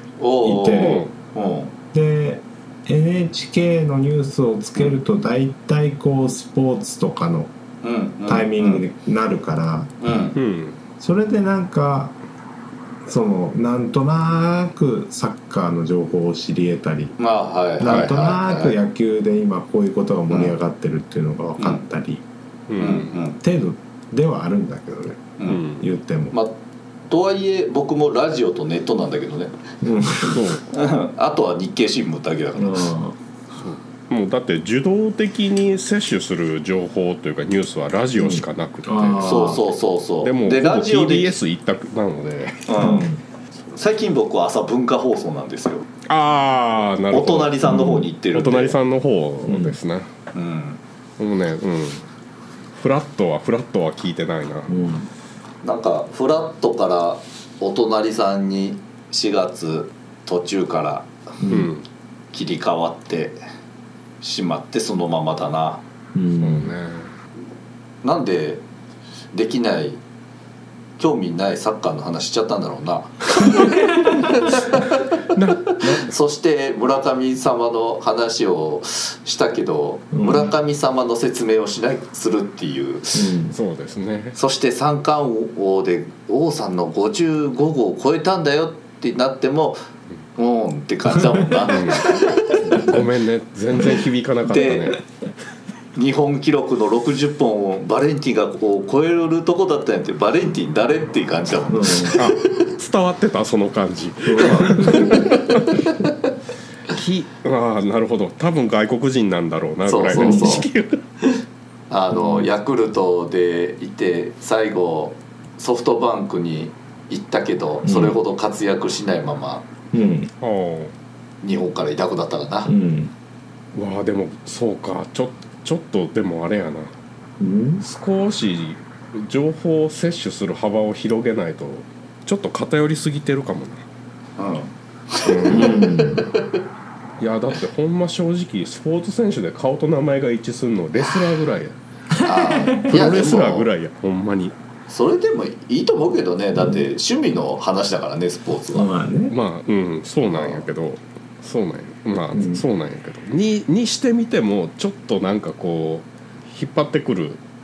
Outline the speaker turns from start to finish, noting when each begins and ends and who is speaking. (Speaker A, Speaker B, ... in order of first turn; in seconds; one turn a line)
Speaker A: 0.2-1.7
Speaker B: 0.4-1.0
Speaker C: 0.7-1.1
Speaker B: 1.9-7.5
Speaker A: 7.8-8.8
Speaker B: 8.3-9.9
Speaker A: 10.0-10.4
Speaker C: 10.3-10.8
Speaker B: 11.0-12.2
Speaker B: 13.0-17.2
Speaker A: 17.2-18.8
Speaker B: 17.8-22.2
Speaker C: 17.9-18.1
Speaker A: 20.3-20.6
Speaker A: 21.6-21.8
Speaker C: 22.7-23.1
Speaker A: 22.8-23.4
Speaker B: 23.4-26.3
Speaker C: 25.5-25.9
Speaker A: 26.3-26.6
Speaker A: 27.1-29.6
Speaker B: 29.8-30.6
Speaker C: 30.3-30.6
Speaker A: 30.7-32.9
Speaker B: 32.5-33.1
Speaker C: 33.5-39.2
Speaker B: 38.2-39.6
Speaker A: 39.2-41.4
Speaker C: 40.2-42.6
Speaker A: 42.7-43.1
Speaker B: 42.8-43.2
Speaker A: 43.7-45.8
Speaker C: 46.1-47.6
Speaker A: 47.1-48.8
Speaker B: 47.6-48.1
Speaker C: 48.3-50.1
Speaker B: 49.4-49.8
Speaker A: 50.3-50.8
Speaker C: 51.2-52.0
Speaker C: 52.8-54.7
Speaker B: 54.7-55.1
Speaker A: 55.6-61.1
Speaker B: 61.4-61.7
Speaker C: 61.5-61.9
Speaker A: 62.3-63.4
Speaker A: 64.2-65.8
Speaker B: 66.1-66.7
Speaker C: 66.4-67.1
Speaker A: 68.0-68.6
Speaker A: 69.3-70.0
Speaker A: 71.0-75.1
Speaker C: 75.3-76.1
Speaker A: 75.7-83.4
Speaker B: 80.1-80.5
Speaker B: 83.1-83.5
Speaker C: 83.5-84.3
Speaker A: 84.3-89.8
Speaker A: 90.3-92.9
Speaker C: 91.7-92.1
Speaker C: 92.7-95.0
Speaker A: 94.4-95.0
Speaker A: 95.9-102.4
Speaker B: 101.7-102.1
Speaker C: 102.1-105.9
Speaker B: 104.2-105.2
Speaker A: 104.9-105.2
Speaker A: 105.8-106.1
Speaker C: 106.9-111.0
Speaker A: 109.8-110.7
Speaker B: 110.2-110.6
Speaker A: 111.9-119.7
Speaker B: 112.1-112.5
Speaker B: 117.8-118.2
Speaker B: 119.9-120.3
Speaker C: 120.4-120.9
Speaker A: 121.4-122.7
Speaker B: 122.7-123.1
Speaker C: 123.7-126.9
Speaker B: 127.4-127.8
Speaker C: 127.8-133.8
Speaker A: 134.4-136.6
Speaker C: 135.2-135.9
Speaker B: 135.5-136.3
Speaker C: 137.2-141.8
Speaker B: 142.2-143.0
Speaker A: 142.2-143.7
Speaker C: 142.9-144.5
Speaker A: 144.9-148.9
Speaker B: 148.7-149.4
Speaker C: 149.3-157.4
Speaker A: 150.3-150.6
Speaker B: 152.3-152.6